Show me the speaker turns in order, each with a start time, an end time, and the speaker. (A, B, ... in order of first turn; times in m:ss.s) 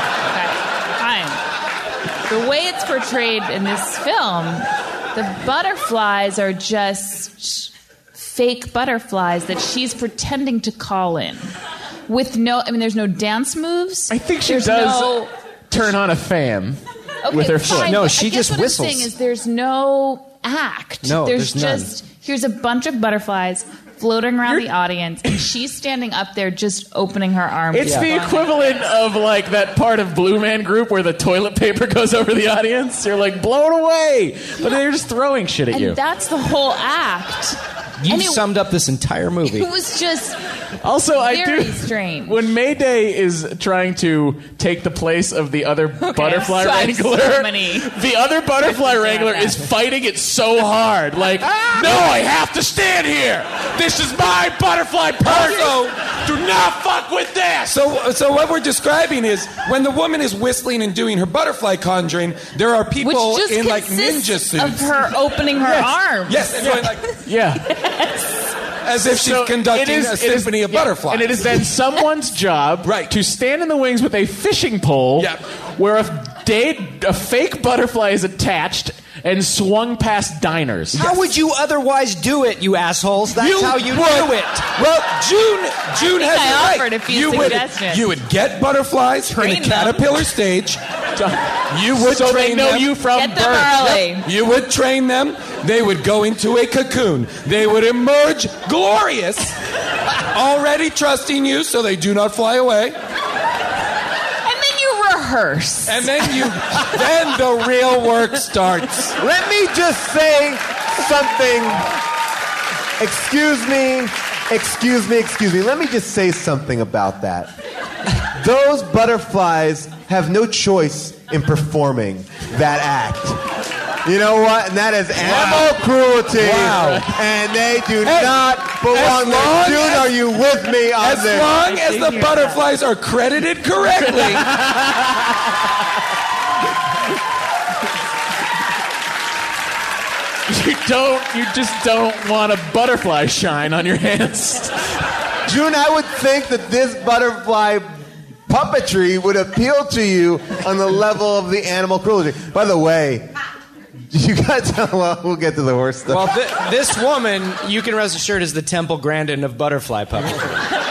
0:00.3-0:01.4 A
0:02.3-0:11.5 A
0:12.1-0:15.3 A
0:14.1-0:15.2 B
0:15.7-0:18.0 B
0:17.2-0:28.8 A
0:17.6-0:19.1 C
0:21.0-0:21.9 C
0:27.7-0:36.0 B
0:27.8-0:28.1 C
0:35.7-0:38.4 A
0:38.0-0:39.7 C
0:39.4-0:40.4 A
0:40.8-0:57.7 B
0:41.2-0:42.4 A
0:46.0-0:47.9 A
0:48.6-0:49.7 A
0:55.2-0:56.0 D
0:57.7-1:05.0 D
1:03.0-1:06.6 A
1:05.6-1:05.9 B
1:06.3-1:07.0 D
1:06.6-1:07.6 B
1:07.6-1:08.4 A
1:08.8-1:11.5 D
1:09.0-1:21.1 B
1:12.8-1:13.1 D
1:20.9-1:24.7 C
1:23.3-1:30.8 D
1:26.0-1:28.1 A
1:29.3-1:30.1 A
1:31.2-1:34.0 B
1:31.7-1:33.0 D
1:33.1-1:34.2 A
1:33.8-1:39.5 D
1:40.3-1:43.0 D
1:44.4-1:46.3 A
1:45.9-1:49.2 D
1:49.2-1:51.9 E
1:53.0-1:57.5 E
1:58.2-2:03.4 E
2:04.0-2:11.6 E
2:05.2-2:05.7 D
2:06.3-2:07.1 D
2:08.0-2:10.1 D
2:11.0-2:14.5 D
2:11.8-2:12.6 A
2:14.0-2:15.2 B
2:20.5-2:24.7 B
2:25.4-2:28.0 E
2:28.5-2:33.3 E
2:34.1-2:36.3 E
2:36.1-2:40.6 C